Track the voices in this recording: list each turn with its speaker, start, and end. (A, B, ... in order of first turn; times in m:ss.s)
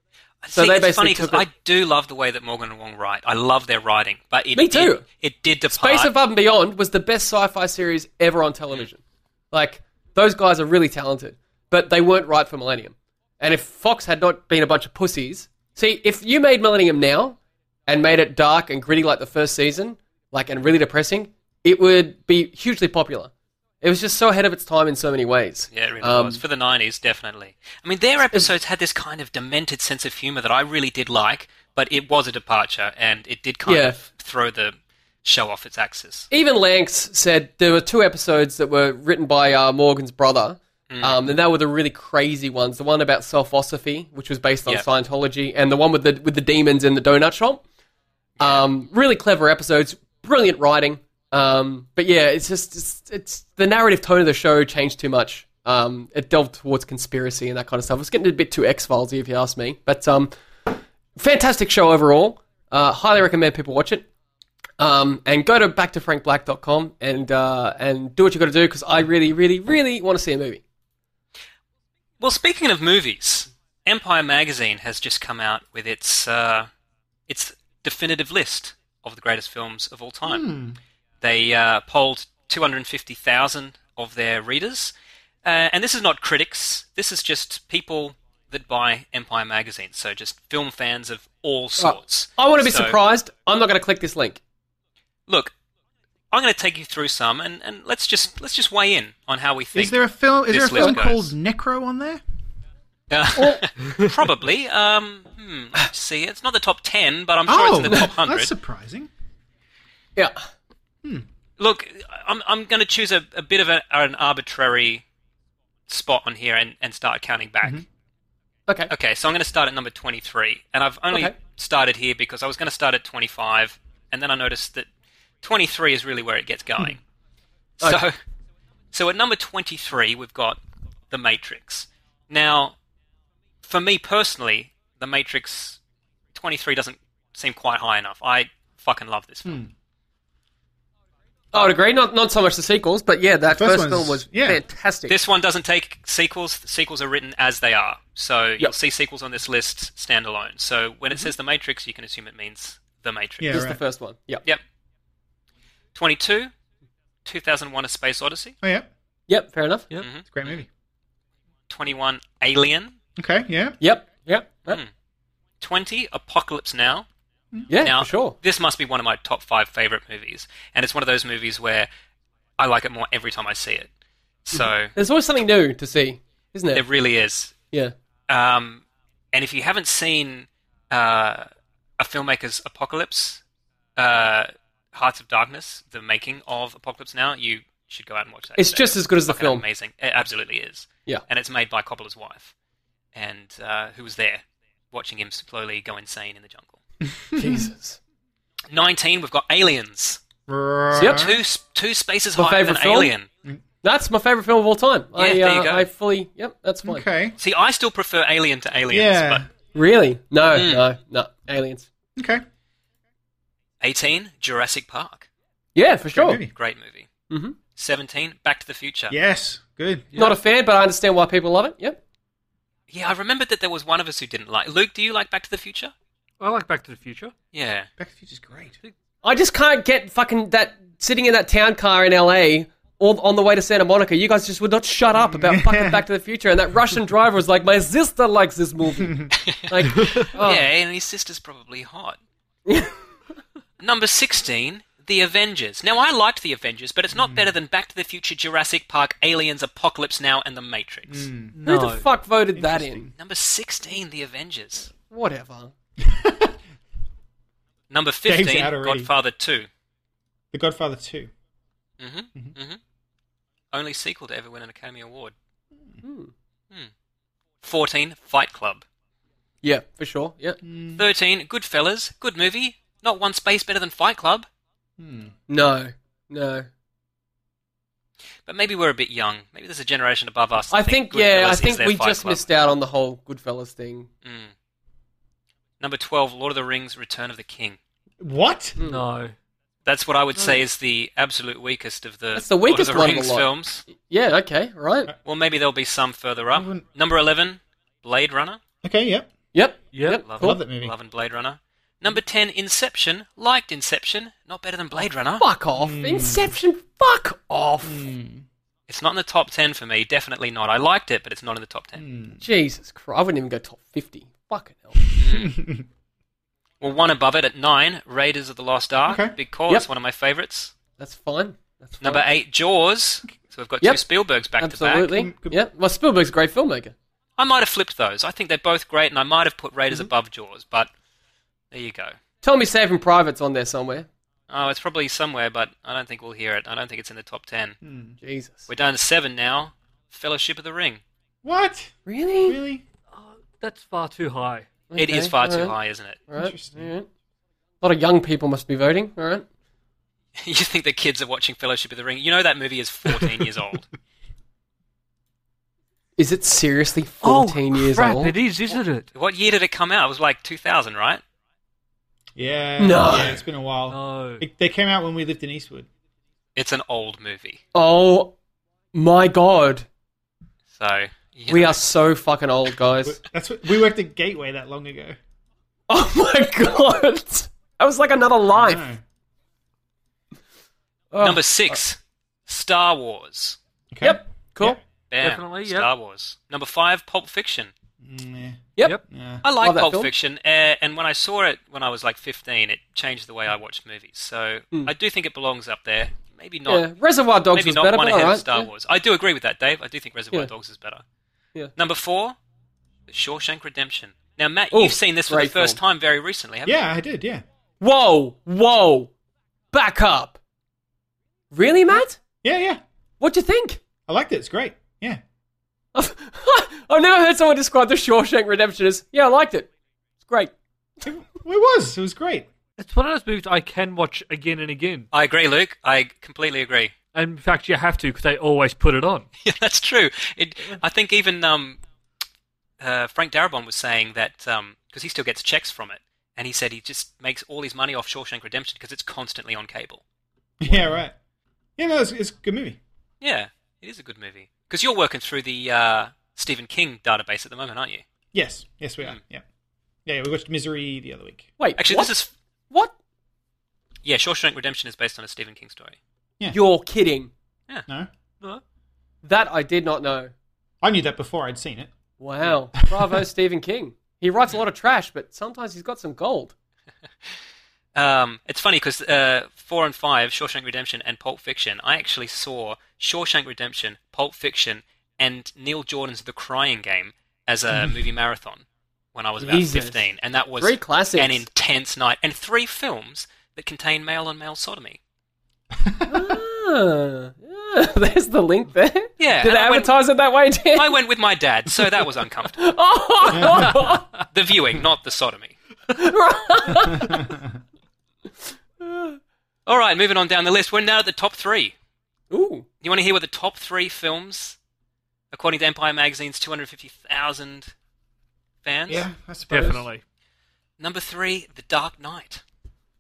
0:00.4-0:06.1 A
0:00.5-0:01.4 B
0:04.5-0:05.0 B
0:05.7-0:26.4 B
0:25.7-0:36.3 A
0:33.6-0:34.0 B
0:36.3-0:47.6 B
0:40.9-0:41.3 A
0:48.4-0:48.6 A
0:48.4-1:04.1 B
1:04.8-1:10.6 B
1:12.2-1:16.7 A
1:17.3-1:20.5 A
1:20.3-1:20.8 C
1:21.2-1:33.0 A
1:31.8-1:34.4 B
1:35.3-1:35.5 A
1:36.3-1:41.3 A
1:39.7-1:42.2 C
1:43.1-1:48.5 A
1:47.5-1:49.1 C
1:51.6-1:55.0 A
1:55.9-1:57.8 A
1:58.9-2:04.9 A
2:05.4-2:07.0 A
2:07.8-2:08.1 A
2:08.9-2:10.6 A
2:11.1-2:12.8 A
2:13.6-2:15.8 A
2:16.3-2:19.6 A
2:21.5-2:25.2 B
2:23.5-2:24.6 C
2:25.1-2:33.6 A
2:33.4-2:33.8 C
2:33.5-2:34.4 B
2:36.0-2:36.5 A
2:37.3-2:38.6 A
2:38.6-2:38.9 C
2:39.3-2:39.9 B
2:40.0-2:40.6 A
2:40.3-2:40.7 C
2:41.7-2:43.0 A
2:43.2-2:43.8 C
2:43.8-2:44.8 B
2:45.6-2:47.1 A
2:47.7-2:48.4 B
2:47.7-2:51.9 A
2:52.6-2:53.9 A
2:54.5-2:54.9 A
2:54.5-2:56.8 B
2:56.7-2:57.6 A
2:58.3-3:03.4 A
3:04.0-3:12.5 A
3:08.6-3:09.6 B
3:13.2-3:16.8 A
3:17.0-3:17.7 C
3:17.4-3:18.0 B
3:18.7-3:20.2 A
3:20.5-3:21.4 C
3:21.0-3:21.2 B
3:21.0-3:23.3 A
3:22.4-3:23.1 B
3:23.8-3:27.0 B
3:25.2-3:25.9 A
3:26.8-3:27.4 C
3:27.4-3:29.4 A
3:28.9-3:29.5 C
3:29.7-3:31.9 B
3:30.6-3:30.8 A
3:32.2-3:32.4 C
3:33.8-3:35.3 A
3:35.8-3:36.4 B
3:36.1-3:36.5 C
3:36.5-3:37.1 A
3:37.3-3:37.6 B
3:37.8-3:39.2 A
3:39.1-3:40.1 C
3:40.2-3:42.0 B
3:42.9-3:45.9 A
3:46.4-3:47.3 D
3:47.5-3:47.9 A
3:48.0-3:48.8 C
3:49.2-4:00.3 B
3:55.2-3:56.0 C
3:59.0-3:59.3 C
3:59.4-4:02.2 A
3:59.9-4:00.6 D
4:02.7-4:03.0 B
4:03.8-4:11.3 A
4:07.1-4:07.5 C
4:11.1-4:11.6 C
4:11.5-4:12.0 D
4:11.6-4:13.1 B
4:12.5-4:13.1 C
4:13.2-4:14.9 A
4:15.1-4:15.7 B
4:16.0-4:16.6 C
4:17.9-4:19.7 A
4:18.3-4:19.1 C
4:20.5-4:21.3 C
4:22.0-4:22.8 A
4:23.7-4:25.3 A
4:26.0-4:26.3 B
4:27.6-4:28.8 A
4:29.6-4:30.6 B
4:30.6-4:31.0 C
4:31.0-4:34.5 A
4:35.0-4:35.3 C
4:35.5-4:36.7 B
4:38.5-4:42.5 A
4:40.7-4:44.1 B
4:44.2-4:44.5 A
4:45.8-4:47.8 A
4:48.2-4:48.8 C
4:48.8-4:49.0 B
4:48.8-4:49.3 D
4:49.9-4:53.8 A
4:50.4-4:50.6 D
4:52.4-4:55.1 B
4:55.2-4:58.6 A
4:56.5-4:56.8 C
4:58.8-4:59.3 C
4:59.5-5:00.6 B
4:59.9-5:00.2 D
5:00.3-5:05.5 A
5:00.4-5:01.0 C
5:05.4-5:08.1 B
5:05.8-5:06.5 C
5:07.8-5:08.5 C
5:08.9-5:12.0 A
5:12.0-5:12.4 C
5:12.4-5:15.1 B
5:15.2-5:15.6 A
5:15.2-5:15.9 C
5:16.8-5:20.7 A
5:19.1-5:19.4 C
5:21.0-5:22.2 B
5:22.0-5:25.2 A
5:24.6-5:27.0 B
5:25.1-5:25.6 C
5:27.4-5:30.9 A
5:31.7-5:32.2 A
5:32.4-5:34.1 B
5:34.5-5:37.8 A
5:37.8-5:38.2 C
5:38.2-5:38.7 B
5:38.7-5:41.0 A
5:41.4-5:41.9 C
5:42.1-5:42.6 B
5:42.5-5:42.8 C
5:43.1-5:44.7 D
5:44.9-5:45.8 B
5:45.0-5:46.2 A
5:46.3-5:47.1 B
5:46.4-5:46.9 C
5:47.8-5:49.5 B
5:50.4-5:53.9 A
5:56.2-5:58.3 B
5:57.2-5:59.1 D
5:58.7-6:01.2 A
6:02.4-6:05.9 C
6:02.8-6:03.4 B
6:03.9-6:04.4 D
6:06.6-6:07.6 A
6:07.8-6:08.4 B
6:08.9-6:09.9 B
6:10.7-6:11.8 A
6:11.5-6:13.2 B
6:13.0-6:15.2 C
6:15.9-6:18.9 B
6:18.6-6:19.0 C
6:21.1-6:21.8 B
6:21.2-6:23.6 A
6:23.9-6:24.8 C
6:24.0-6:24.8 B
6:25.1-6:27.7 A
6:25.2-6:25.9 D
6:28.0-6:29.4 C
6:29.4-6:36.9 A
6:29.6-6:30.1 B
6:36.7-6:38.7 B
6:37.5-6:41.0 A
6:41.8-6:42.4 A
6:43.1-6:46.8 A
6:44.7-6:45.8 B
6:46.6-6:47.4 C
6:47.8-6:49.1 B
6:49.7-6:50.4 B
6:51.5-6:52.2 B
6:52.4-6:52.8 C
6:53.2-6:53.8 B
6:54.1-6:55.2 C
6:56.0-6:59.7 B
7:00.2-7:00.5 B
7:01.0-7:02.5 C
7:02.8-7:05.1 D
7:05.1-7:06.9 A
7:07.1-7:09.3 D
7:09.4-7:11.8 A
7:12.8-7:20.0 A
7:20.6-7:21.2 C
7:21.8-7:22.8 C
7:23.2-7:28.0 A
7:28.3-7:29.4 C
7:30.1-7:31.5 C
7:31.6-7:32.2 B
7:31.8-7:32.3 A
7:32.7-7:33.0 B
7:34.0-7:36.0 A
7:36.5-7:37.3 B
7:39.2-7:40.3 B
7:40.8-7:41.9 C
7:42.2-7:46.6 B
7:42.9-7:43.1 C
7:48.0-8:05.0 A
7:59.4-8:00.0 B
8:00.6-8:01.4 B
8:05.8-8:06.4 C
8:06.0-8:11.0 B
8:09.2-8:09.9 A
8:10.7-8:12.6 A
8:12.6-8:14.1 B
8:13.3-8:13.7 C
8:14.3-8:15.6 A
8:15.9-8:17.4 B
8:16.9-8:17.5 C
8:18.8-8:19.2 B
8:19.7-8:21.8 A
8:22.3-8:22.7 B
8:22.8-8:24.6 A
8:25.3-8:27.7 A
8:28.6-8:29.1 A
8:28.9-8:29.9 C
8:29.5-8:30.0 D
8:30.8-8:32.4 A